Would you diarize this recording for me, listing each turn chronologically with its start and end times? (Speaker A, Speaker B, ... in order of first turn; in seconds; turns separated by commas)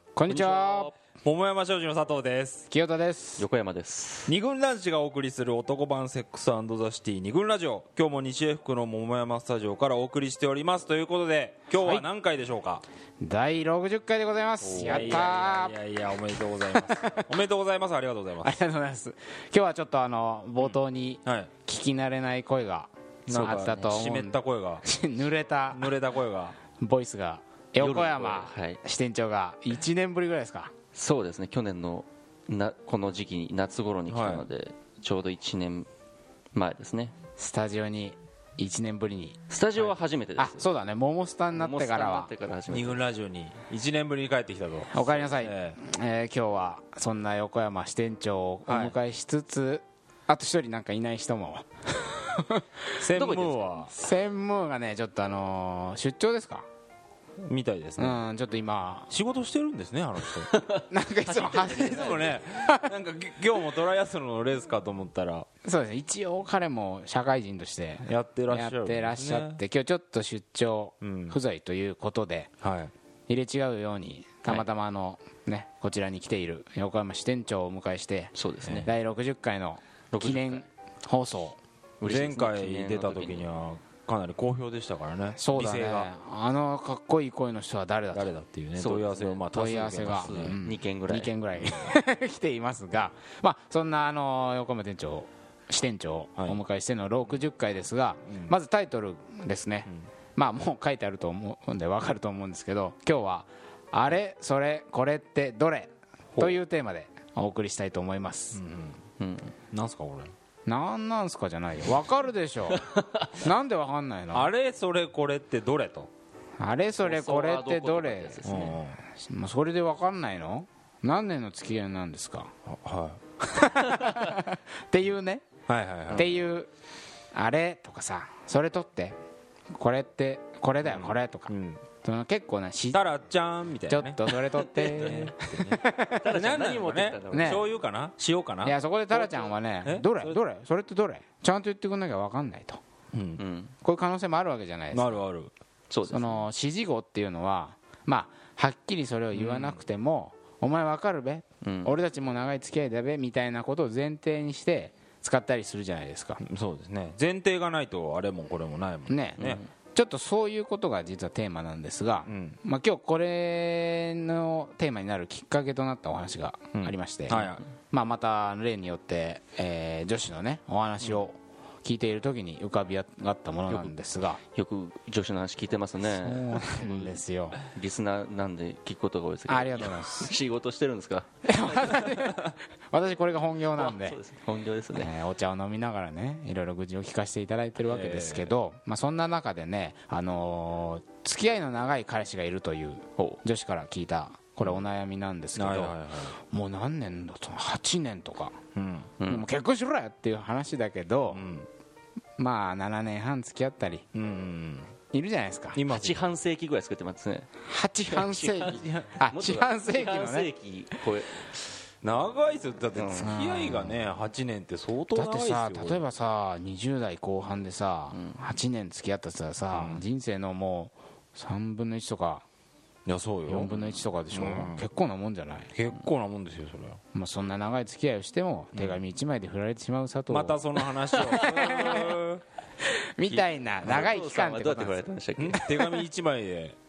Speaker A: 0.1-0.9, Speaker B: 0.3-0.9, Speaker C: 1.2-2.7, Speaker A: 2.7-3.5, Speaker B: 3.4-4.3, Speaker C: 4.3-12.8, Speaker A: 11.7-12.1, Speaker A: 13.2-15.8, Speaker C: 14.6-18.6, Speaker A: 16.4-17.3, Speaker A: 18.4-26.0, Speaker C: 21.3-21.5, Speaker C: 23.3-24.9, Speaker C: 25.7-26.6, Speaker A: 26.8-30.7, Speaker B: 27.8-28.8, Speaker B: 30.9-35.9, Speaker C: 34.1-34.5, Speaker B: 36.5-37.1, Speaker A: 37.4-39.4, Speaker B: 39.5-40.6, Speaker A: 40.4-42.3, Speaker B: 41.5-43.0, Speaker C: 42.7-45.8, Speaker A: 44.9-53.3, Speaker C: 48.7-49.0, Speaker C: 53.0-53.9, Speaker B: 53.1-53.9, Speaker A: 53.9-56.7, Speaker C: 57.5-58.2, Speaker A: 58.0-59.1, Speaker C: 59.1-60.5, Speaker B: 60.5-62.4, Speaker A: 60.9-62.9, Speaker C: 61.6-65.5, Speaker A: 65.7-72.5, Speaker C: 68.0-69.6, Speaker C: 71.0-71.4, Speaker C: 72.6-72.9, Speaker A: 73.3-78.3, Speaker B: 78.3-78.9, Speaker C: 78.6-78.9, Speaker A: 78.8-81.6, Speaker B: 80.1-80.7, Speaker C: 82.0-86.1, Speaker B: 82.0-83.5, Speaker A: 85.3-88.3, Speaker C: 88.1-90.6, Speaker B: 88.8-89.5, Speaker A: 89.5-108.6, Speaker B: 90.0-91.3, Speaker C: 91.5-91.9, Speaker C: 108.5-109.0, Speaker B: 109.2-109.5, Speaker C: 109.7-110.3, Speaker A: 110.7-112.8, Speaker B: 112.9-113.2, Speaker A: 113.4-114.5, Speaker C: 114.3-116.1, Speaker A: 116.6-122.5, Speaker B: 117.0-118.8, Speaker C: 118.5-119.0, Speaker C: 122.7-123.2, Speaker A: 123.4-125.5, Speaker C: 125.7-126.3, Speaker A: 126.1-126.7, Speaker A: 127.3-129.2, Speaker A: 129.7-131.5, Speaker C: 130.8-131.8, Speaker A: 132.0-133.1, Speaker C: 132.9-140.4, Speaker A: 133.9-136.4, Speaker B: 134.6-135.2, Speaker B: 136.2-137.7, Speaker A: 137.3-137.7, Speaker A: 138.6-142.8, Speaker C: 143.1-143.4, Speaker B: 143.4-143.7, Speaker A: 143.8-145.2, Speaker C: 144.9-145.5, Speaker B: 145.9-146.4, Speaker A: 146.1-156.4, Speaker C: 149.3-149.8, Speaker B: 151.6-151.9, Speaker C: 156.4-159.6, Speaker A: 159.1-174.4, Speaker B: 159.4-159.7, Speaker C: 162.3-162.6, Speaker C: 166.8-167.6, Speaker B: 173.7-173.9, Speaker B: 174.5-182.4, Speaker A: 176.0-177.6, Speaker A: 179.5-180.3, Speaker A: 181.4-184.2, Speaker B: 183.8-185.1, Speaker A: 185.0-198.6, Speaker C: 187.9-188.6, Speaker C: 195.6-196.3, Speaker C: 198.8-199.1, Speaker B: 199.2-199.5, Speaker A: 199.3-201.4, Speaker C: 201.3-201.7, Speaker A: 202.4-204.1, Speaker C: 204.1-204.9, Speaker A: 205.1-205.9, Speaker C: 205.7-206.2, Speaker B: 205.9-207.5, Speaker A: 207.6-210.5, Speaker B: 208.1-211.6, Speaker C: 212.0-216.0, Speaker B: 212.9-213.3, Speaker A: 213.2-214.1, Speaker A: 215.1-222.4, Speaker B: 218.1-218.5, Speaker C: 219.7-220.0, Speaker C: 223.1-223.7, Speaker A: 223.5-225.7, Speaker C: 224.3-224.8, Speaker C: 225.8-227.0, Speaker A: 227.1-232.2, Speaker C: 228.8-229.0, Speaker C: 230.3-232.4, Speaker B: 231.1-232.0, Speaker A: 232.8-236.1, Speaker C: 233.3-234.1, Speaker B: 233.9-235.6, Speaker C: 235.4-236.8